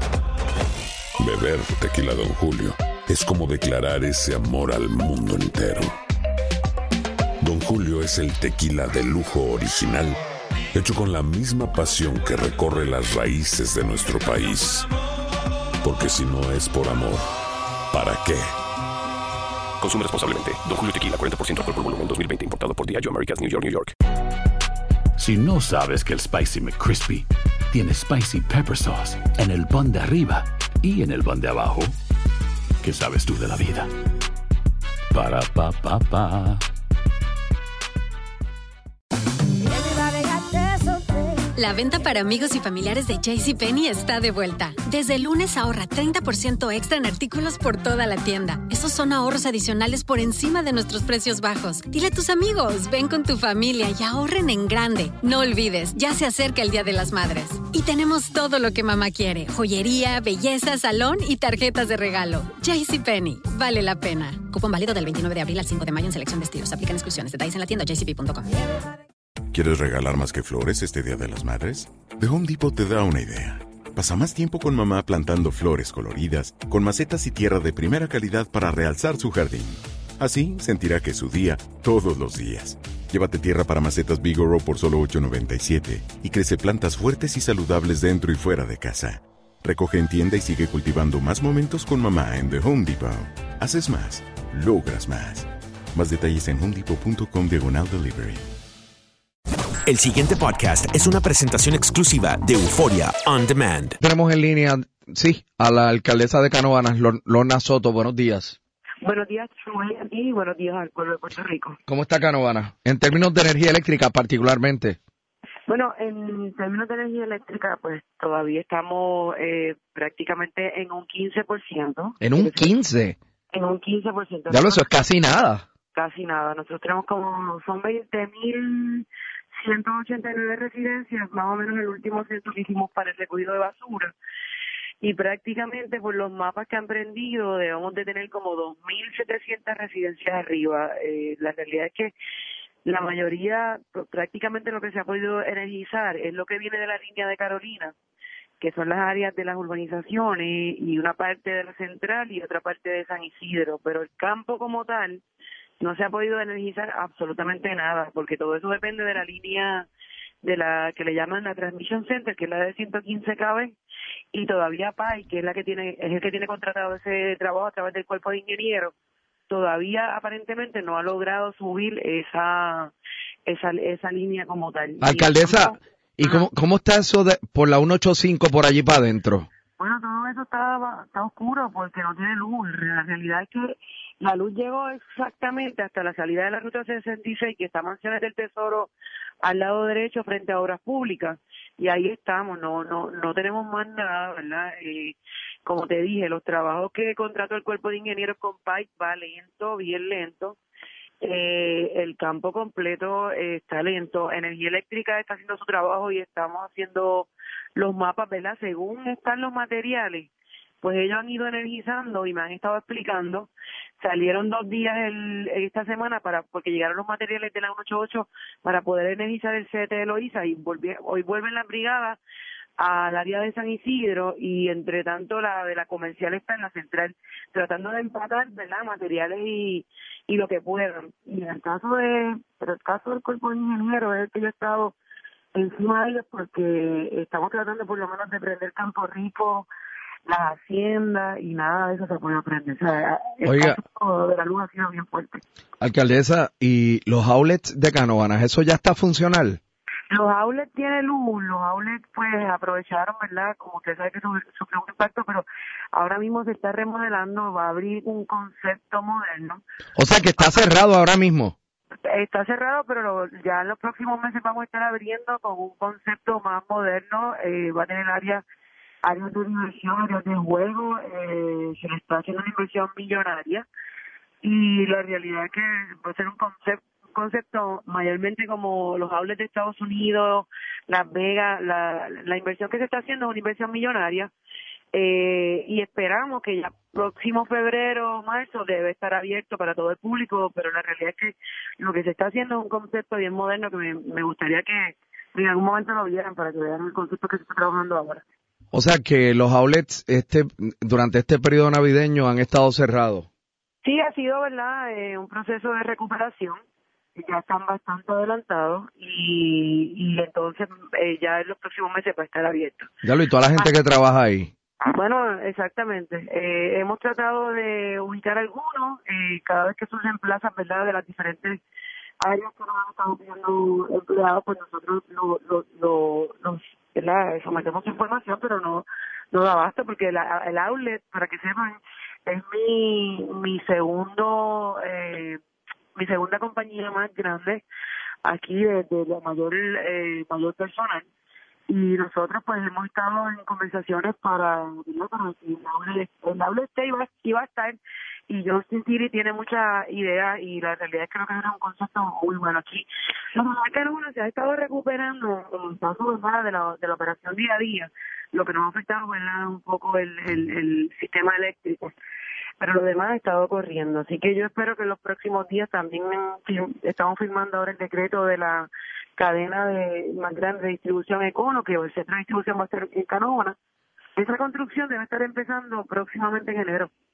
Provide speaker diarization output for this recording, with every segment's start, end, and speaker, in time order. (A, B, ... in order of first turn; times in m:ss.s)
0:01.2-0:05.9 A
0:07.4-0:10.2 A
0:10.7-0:14.9 A
0:15.8-0:17.2 A
0:17.9-0:18.5 A
0:19.8-0:23.9 B
0:25.2-0:31.9 C
0:32.8-0:33.9 C
0:35.1-0:36.6 C
0:41.6-1:08.5 D
1:09.5-1:38.5 E
1:39.8-1:44.0 F
1:44.0-1:48.6 G
1:49.0-1:51.8 H
1:51.9-1:55.0 G
1:55.7-2:02.7 H
2:02.2-2:03.2 G
2:03.5-2:04.9 H
2:04.5-2:05.6 G
2:05.9-2:14.1 H
2:15.0-2:22.1 H
2:22.8-2:27.9 H
2:28.6-2:35.2 H
2:35.8-2:39.9 H
2:40.4-2:43.8 H
2:44.3-2:48.9 H
2:49.5-2:52.9 H
2:53.4-2:56.5 H
2:55.0-2:59.5 G
2:59.8-3:08.9 H
3:09.4-3:20.6 H
3:21.2-3:30.3 H
3:30.8-3:42.2 H
3:42.8-3:54.9 H
3:55.5-3:59.7 H
4:00.2-4:05.4 H
4:03.4-4:03.8 G
4:05.8-4:09.6 G
4:10.1-4:19.6 H
4:20.0-4:21.5 G
4:22.0-4:28.4 H
4:29.0-4:33.6 H
4:34.4-4:44.3 H
4:44.9-4:58.2 H
4:58.7-5:03.3 G
5:03.8-5:06.6 H
5:07.1-5:12.9 H
5:13.0-5:14.5 G
5:14.8-5:21.6 H
5:22.2-5:35.4 H
5:35.9-5:37.6 H
5:38.2-5:41.1 H
5:41.7-6:02.0 H
6:02.6-6:13.6 H
6:14.2-6:16.9 H